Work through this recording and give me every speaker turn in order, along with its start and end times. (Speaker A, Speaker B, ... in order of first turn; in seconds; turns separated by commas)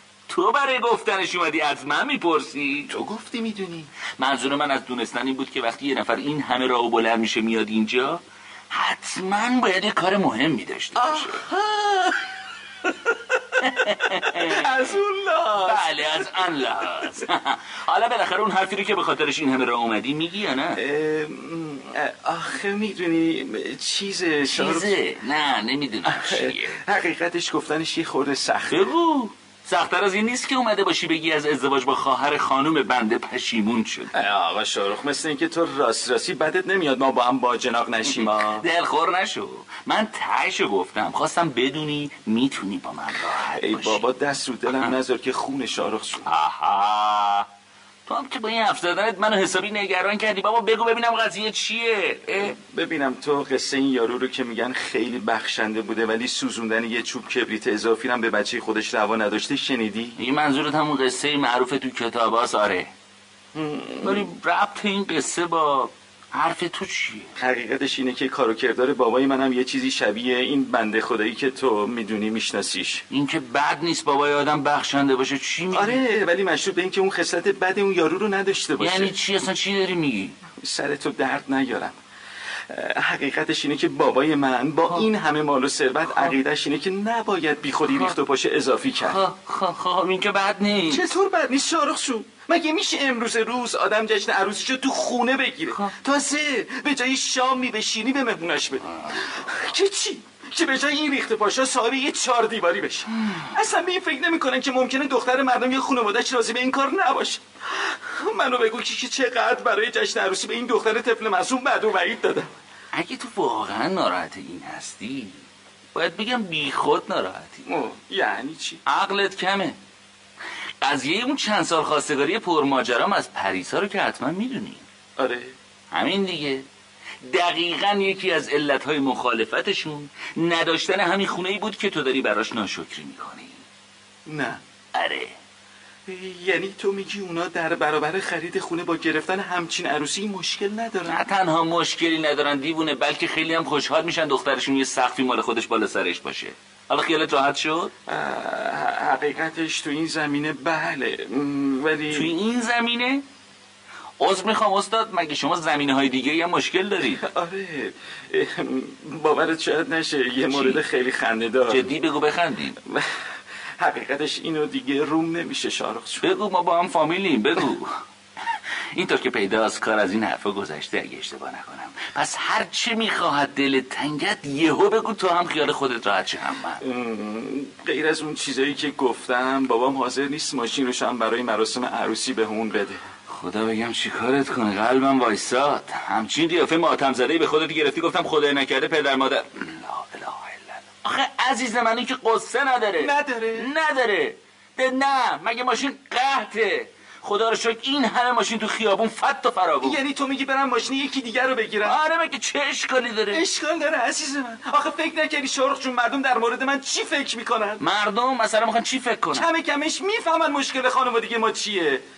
Speaker A: 0.3-2.9, Speaker B: 2.9-3.9, Speaker A: 4.2-11.4, Speaker B: 10.9-12.2, Speaker B: 12.8-13.6, Speaker A: 13.6-15.0, Speaker B: 14.3-17.1, Speaker A: 15.6-20.8, Speaker B: 20.7-24.9, Speaker A: 24.5-26.8, Speaker B: 26.1-28.9, Speaker A: 28.7-34.2, Speaker B: 34.1-38.6, Speaker A: 38.1-44.0, Speaker B: 43.5-46.3, Speaker A: 46.3-47.5, Speaker A: 48.0-52.5, Speaker B: 52.5-60.2, Speaker A: 60.2-62.9, Speaker B: 63.5-64.2, Speaker A: 64.0-67.3, Speaker B: 67.4-73.0, Speaker A: 73.1-76.0, Speaker B: 75.7-79.1, Speaker A: 78.8-80.4, Speaker B: 80.6-82.0, Speaker B: 82.7-89.2, Speaker A: 86.0-86.3, Speaker A: 89.0-91.0, Speaker B: 90.9-112.5, Speaker A: 112.9-115.4, Speaker A: 115.9-117.7, Speaker B: 117.7-118.8, Speaker A: 118.8-119.8, Speaker A: 120.8-124.8, Speaker B: 125.2-125.5, Speaker A: 125.9-126.6, Speaker A: 127.2-133.6, Speaker B: 134.3-134.6, Speaker A: 134.9-135.3, Speaker B: 136.1-141.2, Speaker A: 141.1-147.9, Speaker B: 148.1-152.3, Speaker A: 152.1-153.2, Speaker A: 154.2-157.2, Speaker B: 157.1-161.8, Speaker A: 160.5-160.8, Speaker A: 161.7-162.8, Speaker B: 163.8-166.3, Speaker A: 166.2-167.9, Speaker A: 168.9-176.8, Speaker B: 176.8-183.0, Speaker A: 183.3-200.0, Speaker B: 193.0-193.7, Speaker B: 199.8-202.0, Speaker A: 201.8-203.4, Speaker B: 203.3-207.8, Speaker A: 207.8-209.5, Speaker B: 209.3-212.0